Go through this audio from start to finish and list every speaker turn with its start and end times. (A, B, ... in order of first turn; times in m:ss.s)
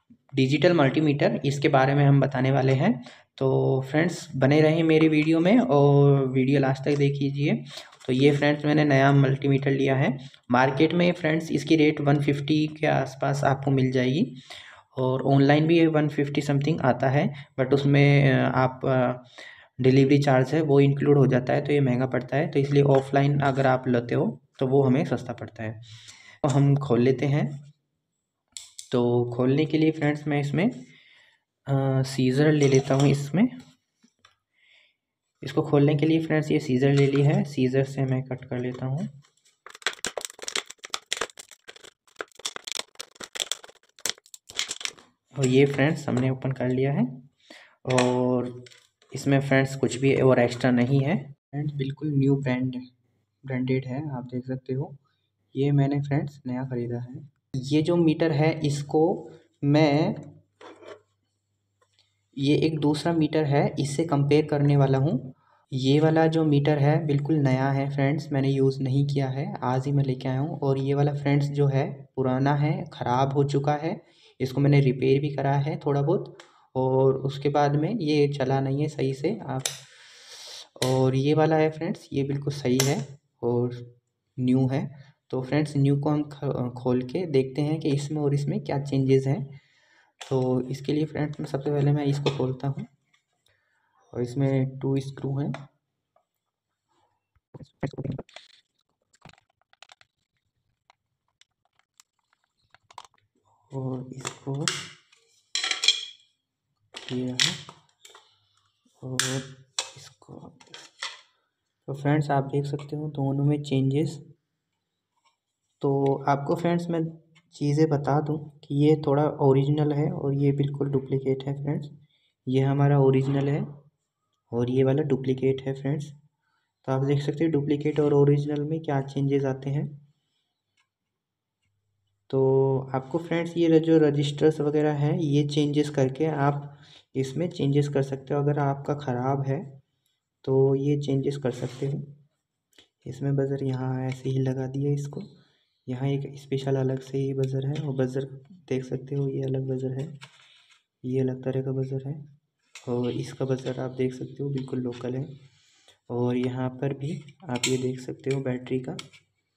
0:00.3-0:25.8 A
0:26.4-0:27.6 A
0:28.9-0:30.8 A
0:31.7-0:33.5 A
0:35.4-0:39.1 A
0:45.3-0:47.2 A
0:47.8-0:52.8 A
0:53.4-0:55.0 A
0:55.5-1:00.3 A
1:02.4-1:29.5 A
1:30.2-1:32.9 A
1:34.1-1:35.6 A
1:37.6-1:38.2 A
1:43.7-1:44.8 A
1:46.9-1:47.6 A
1:49.0-1:50.7 A
1:51.9-1:54.2 A
1:55.8-2:01.9 A
2:02.5-2:03.7 A
2:04.5-2:06.1 A
2:06.8-2:10.0 A
2:12.3-2:19.8 A
2:20.4-2:22.1 A
2:23.0-2:25.3 A
2:25.8-2:30.2 A
2:31.0-2:32.2 A
2:32.8-2:35.3 A
2:36.1-2:39.0 A